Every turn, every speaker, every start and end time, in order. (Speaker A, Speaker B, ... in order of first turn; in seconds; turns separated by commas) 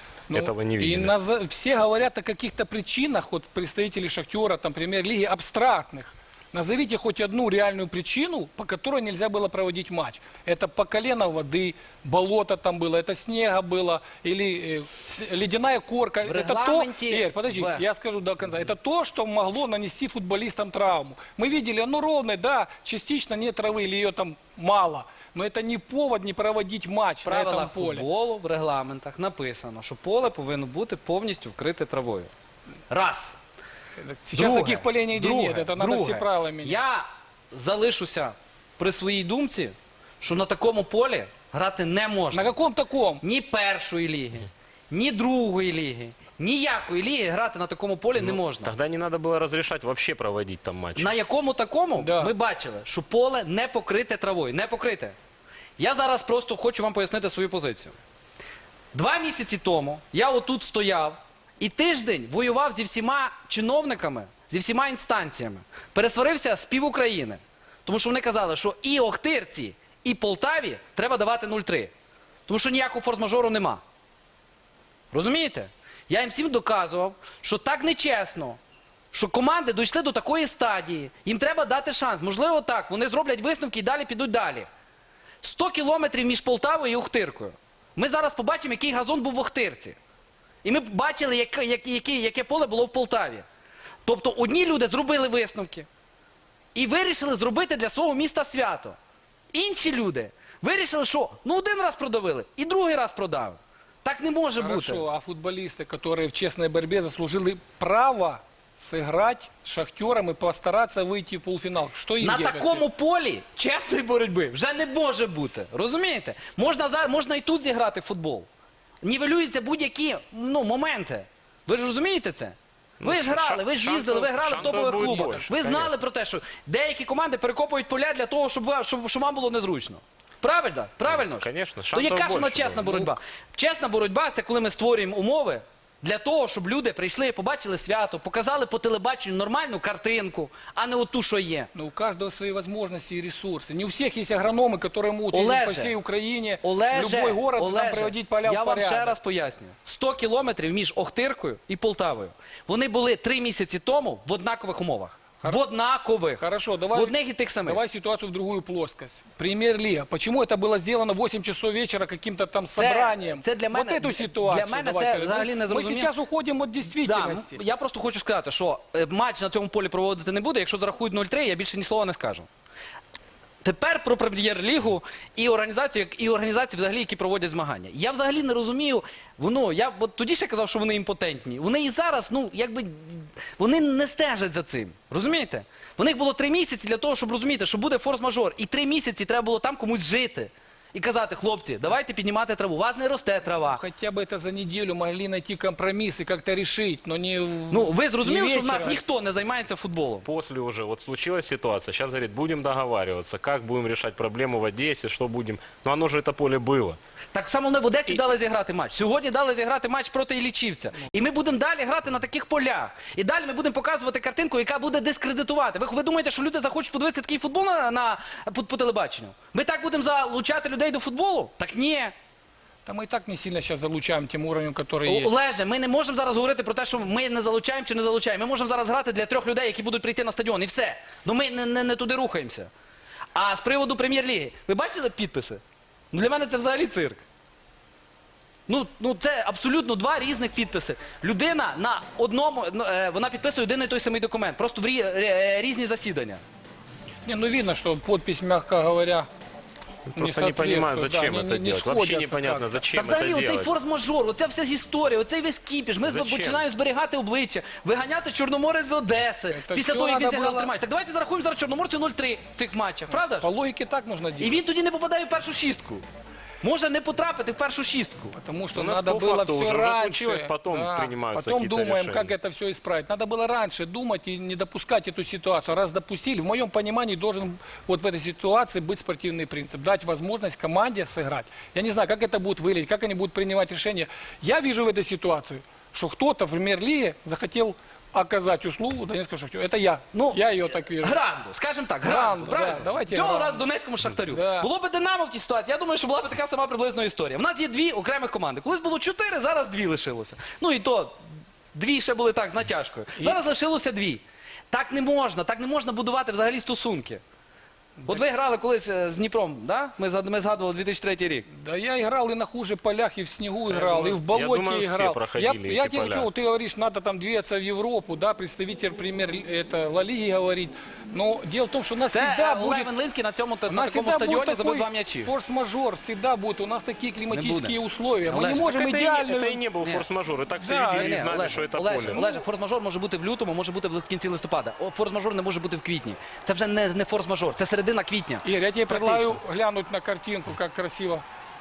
Speaker A: 0.3-28.1, Speaker B: 0.3-1.1, Speaker C: 16.2-17.8, Speaker C: 27.2-32.3, Speaker C: 32.9-33.4, Speaker A: 34.0-36.8, Speaker C: 34.3-42.5, Speaker A: 42.3-43.2, Speaker C: 43.2-48.7, Speaker B: 48.1-51.1, Speaker C: 51.0-55.1, Speaker A: 52.0-52.3, Speaker C: 55.8-58.0, Speaker C: 58.9-71.9, Speaker C: 72.5-73.8, Speaker C: 75.1-78.6, Speaker C: 79.1-84.7, Speaker C: 85.4-90.0, Speaker C: 90.6-93.4, Speaker C: 94.0-95.9, Speaker C: 96.7-99.0, Speaker C: 99.5-105.0, Speaker A: 104.6-112.8, Speaker C: 112.2-118.5, Speaker C: 119.0-141.7, Speaker B: 123.0-125.9, Speaker A: 124.7-125.4, Speaker B: 131.0-133.1, Speaker A: 141.7-149.2, Speaker C: 145.3-145.9, Speaker C: 146.6-157.8, Speaker A: 156.4-167.6, Speaker C: 162.7-166.1, Speaker C: 166.8-172.5, Speaker C: 173.6-193.8, Speaker A: 193.5-199.0, Speaker C: 197.7-200.2, Speaker B: 200.2-207.0, Speaker C: 207.3-222.1, Speaker A: 222.8-225.3, Speaker C: 225.0-232.7, Speaker C: 233.3-237.2, Speaker C: 238.7-246.4, Speaker A: 247.2-249.3, Speaker B: 250.1-253.7, Speaker A: 250.2-252.9, Speaker C: 252.9-263.5, Speaker B: 256.0-256.7, Speaker A: 259.5-260.7, Speaker A: 263.1-264.6, Speaker C: 264.4-266.0, Speaker C: 266.6-268.3, Speaker A: 268.3-291.2, Speaker B: 268.7-272.3, Speaker C: 290.1-301.2, Speaker A: 292.0-293.7, Speaker A: 294.3-294.7, Speaker C: 301.7-307.2, Speaker A: 303.2-303.4, Speaker C: 308.1-311.4, Speaker A: 311.5-322.9, Speaker B: 313.7-316.3, Speaker C: 322.1-325.3, Speaker A: 323.7-329.6, Speaker C: 327.3-328.6, Speaker B: 328.6-332.4, Speaker C: 329.8-330.1, Speaker A: 330.5-331.2, Speaker C: 330.9-339.4, Speaker A: 338.4-341.2